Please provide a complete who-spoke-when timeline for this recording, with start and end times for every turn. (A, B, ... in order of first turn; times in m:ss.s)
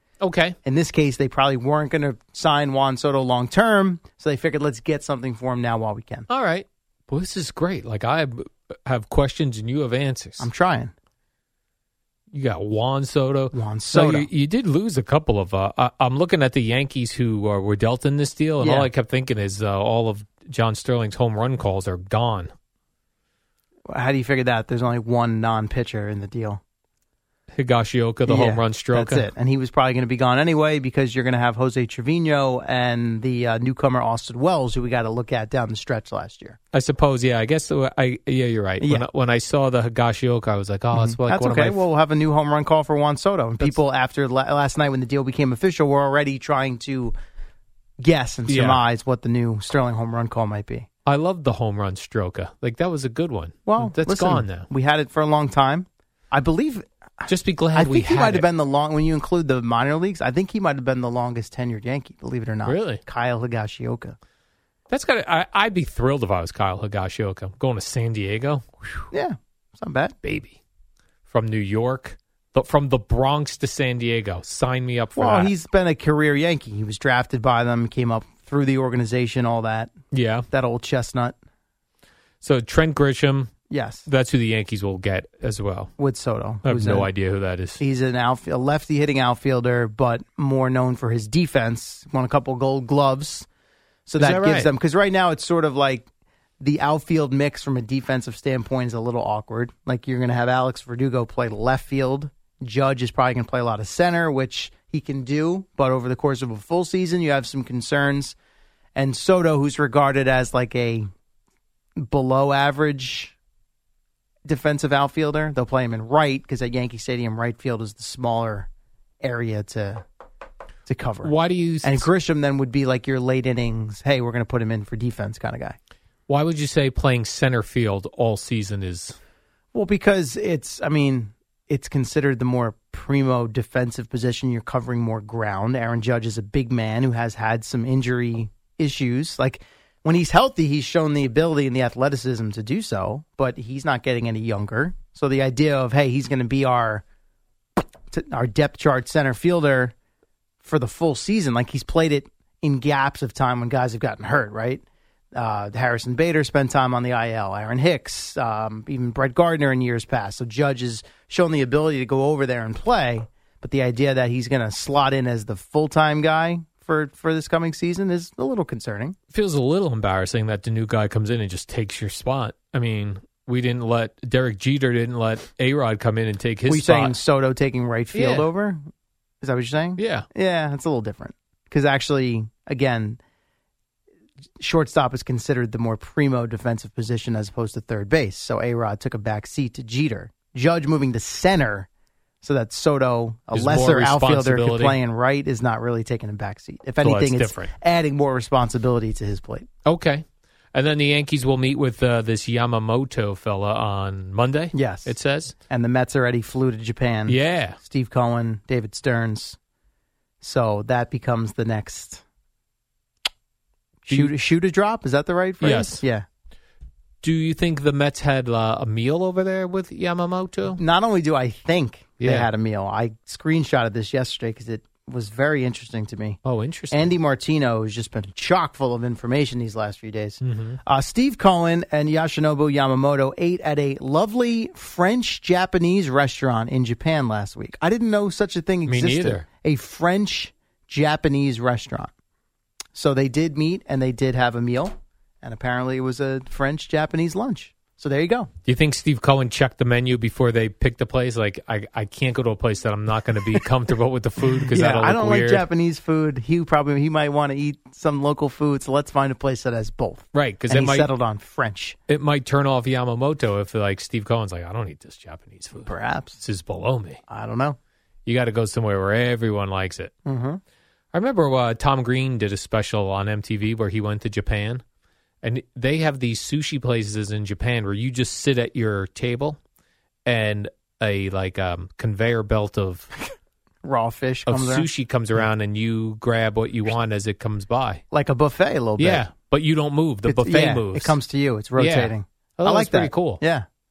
0:00.2-0:00.6 A
0:00.6-0:06.3 B
0:06.3-0:10.5 A
0:10.4-0:10.9 B
0:12.3-0:22.5 A
0:13.5-0:14.3 B
0:18.6-0:18.9 B
0:23.9-0:26.6 B
0:27.5-0:29.3 A
0:28.2-0:36.6 B
0:36.7-0:41.8 A
0:38.8-0:39.0 B
0:40.9-0:47.2 B
0:48.0-0:50.9 B
0:48.5-0:48.8 A
0:51.0-0:54.7 A
0:53.6-1:04.2 B
0:57.3-0:58.5 A
1:02.6-1:03.0 A
1:04.9-1:09.0 A
1:09.1-1:10.1 B
1:10.2-1:10.6 A
1:11.3-1:15.5 A
1:15.1-1:19.9 B
1:20.1-1:20.5 A
1:20.5-1:21.4 B
1:22.4-1:23.5 A
1:23.7-1:24.0 B
1:24.0-1:25.9 A
1:26.0-1:27.1 B
1:26.6-1:27.8 A
1:27.8-1:33.5 B
1:34.1-1:36.1 B
1:34.2-1:34.7 A
1:36.6-1:48.4 B
1:48.9-1:51.1 B
1:52.0-1:53.3 B
1:54.4-1:58.7 B
1:59.2-2:00.0 B
2:00.9-2:05.8 B
2:01.2-2:02.1 A
2:06.3-2:09.2 A
2:09.7-2:27.0 B
2:28.1-2:29.9 B
2:30.6-2:49.2 B
2:49.3-2:57.2 A
2:56.7-2:58.8 B
2:58.1-2:58.5 A
2:59.4-3:03.2 B
3:00.0-3:00.3 A
3:04.6-3:11.9 B
3:12.4-3:19.7 B
3:13.5-3:15.0 A
3:17.0-3:17.7 A
3:19.8-3:25.6 A
3:24.7-3:25.1 B
3:25.7-3:29.6 B
3:27.3-3:27.8 A
3:30.4-3:32.2 B
3:34.0-3:36.2 B
3:34.1-3:34.3 A
3:35.6-3:36.0 A
3:37.2-3:40.8 A
3:40.7-3:46.4 B
3:42.2-3:42.5 A
3:46.4-3:47.2 A
3:46.9-4:02.1 B
3:50.4-3:50.8 A
3:58.8-3:59.4 A
4:02.9-4:08.5 B
4:08.6-4:15.6 A
4:14.6-4:22.0 B
4:20.3-4:21.1 A
4:22.1-4:27.2 A
4:25.8-4:26.4 B
4:27.3-4:27.8 B
4:28.2-4:30.1 A
4:30.2-4:30.6 B
4:31.1-4:34.8 A
4:35.4-4:39.6 A
4:40.2-4:43.1 A
4:43.8-4:44.9 B
4:44.5-4:48.0 A
4:48.1-4:49.3 B
4:49.0-4:51.2 A
4:50.2-4:53.6 B
4:51.8-4:53.4 A